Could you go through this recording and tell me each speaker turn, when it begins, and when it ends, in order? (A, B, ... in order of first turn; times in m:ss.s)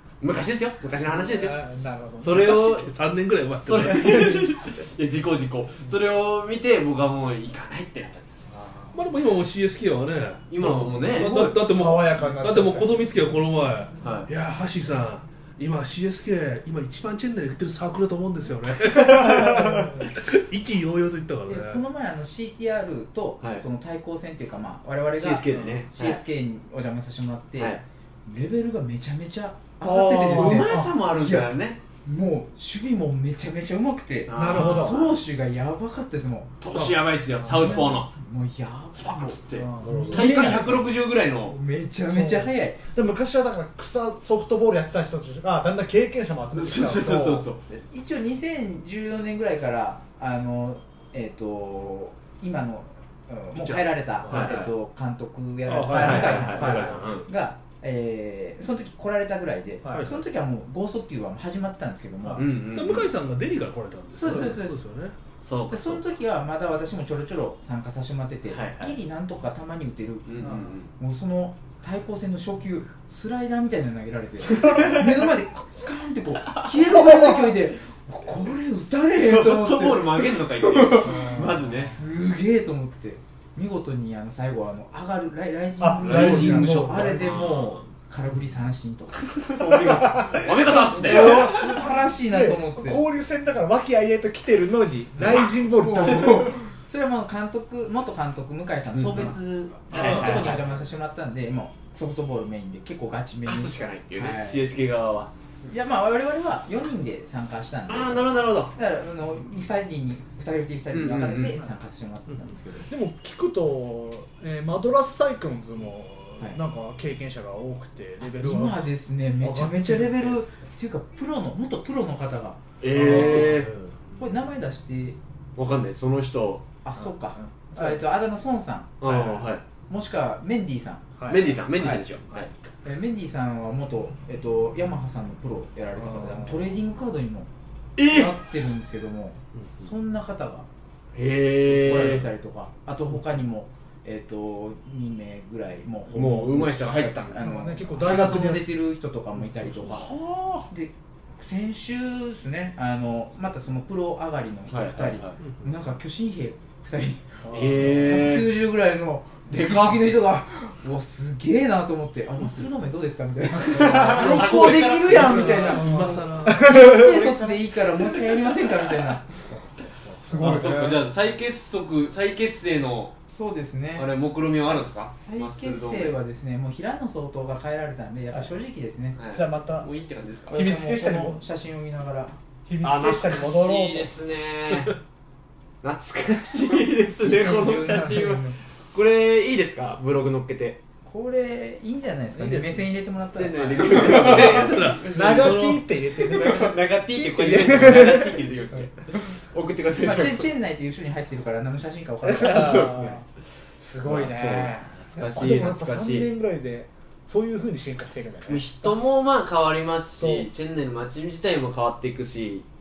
0:00.2-0:01.6 A
0:01.1-0:02.6 B
0:02.2-0:02.9 A
0:02.3-0:04.5 C
0:03.6-0:08.5 A
0:08.5-0:09.1 B
0:08.9-0:21.8 C
0:10.5-0:11.4 A
0:11.2-0:13.1 B
0:11.2-0:11.5 D
0:14.0-0:14.3 A
0:19.1-0:20.1 B
0:21.5-0:36.6 D
0:25.1-0:26.2 A
0:25.5-0:25.8 B
0:27.6-0:27.8 A
0:29.8-0:30.9 B
0:30.3-0:31.8 A
0:34.3-0:35.2 A
0:34.3-0:35.0 B
0:36.6-0:38.1 A
0:37.4-0:37.8 B
0:37.5-0:40.9 D
0:38.9-0:41.6 A
0:39.5-0:40.8 B
0:39.8-0:40.2 C
0:41.4-0:42.8 D
0:42.1-0:47.4 B
0:46.5-0:47.8 A
0:47.9-1:02.5 D
0:53.5-0:54.6 C
0:54.3-0:54.7 A
0:55.6-0:56.8 C
0:55.9-0:57.3 A
0:56.0-0:57.0 B
0:59.8-1:00.1 B
0:59.9-1:00.2 C
1:02.2-1:02.5 B
1:02.4-1:03.1 A
1:02.7-1:05.2 C
1:04.1-1:04.8 D
1:05.4-1:06.1 A
1:05.7-1:30.2 D
1:08.5-1:09.0 A
1:10.2-1:10.9 A
1:10.4-1:10.7 B
1:14.5-1:15.0 A
1:16.8-1:17.5 B
1:19.1-1:21.9 A
1:21.0-1:21.9 B
1:25.8-1:27.6 B
1:26.0-1:27.8 A
1:29.4-1:31.6 A
1:29.7-1:36.6 B
1:30.7-1:33.0 D
1:35.6-1:44.6 D
1:38.9-1:39.3 A
1:39.9-1:40.5 B
1:39.9-1:40.6 A
1:43.4-1:45.3 A
1:45.6-1:52.9 D
1:47.9-1:48.7 A
1:50.9-1:51.6 A
1:52.9-1:58.9 B
1:58.2-2:03.6 D
1:59.4-2:00.4 B
2:02.8-2:03.7 A
2:02.9-2:04.2 C
2:04.2-2:05.2 D
2:05.6-2:06.6 A
2:06.8-2:08.9 D
2:07.0-2:08.0 B
2:09.0-2:09.6 A
2:09.0-2:09.5 B
2:09.9-2:11.0 D
2:11.2-2:11.6 B
2:11.3-2:12.5 A
2:11.8-2:12.1 D
2:12.8-2:17.5 D
2:16.0-2:16.6 B
2:18.0-2:18.3 A
2:18.0-2:20.7 D
2:19.6-2:19.8 C
2:21.1-2:22.3 A
2:21.6-2:30.1 D
2:26.1-2:27.5 A
2:26.2-2:28.7 B
2:29.9-2:30.7 A
2:30.7-2:49.4 D
2:34.7-2:35.4 A
2:37.4-2:38.3 B
2:37.5-2:38.5 A
2:39.5-2:39.9 A
2:43.6-2:45.9 A
2:43.7-2:47.5 B
2:45.1-2:46.7 C
2:50.2-2:51.1 B
2:50.3-2:53.1 A
2:53.3-2:54.1 D
2:54.0-2:56.2 A
2:55.2-2:59.2 D
2:59.1-3:00.6 A
2:59.3-2:59.9 B
3:00.5-3:01.4 B
3:00.5-3:02.4 D
3:02.6-3:04.1 B
3:02.8-3:05.0 A
3:05.8-3:10.8 A
3:07.2-3:08.4 D
3:07.8-3:08.5 B
3:11.0-3:14.7 D
3:12.4-3:12.9 B
3:13.3-3:20.5 A
3:14.0-3:15.8 C
3:14.2-3:18.8 B
3:20.0-3:23.1 D
3:22.2-3:23.2 B
3:22.3-3:23.2 A
3:23.8-3:29.2 B
3:24.0-3:26.3 A
3:28.5-3:32.6 A
3:30.2-3:30.5 B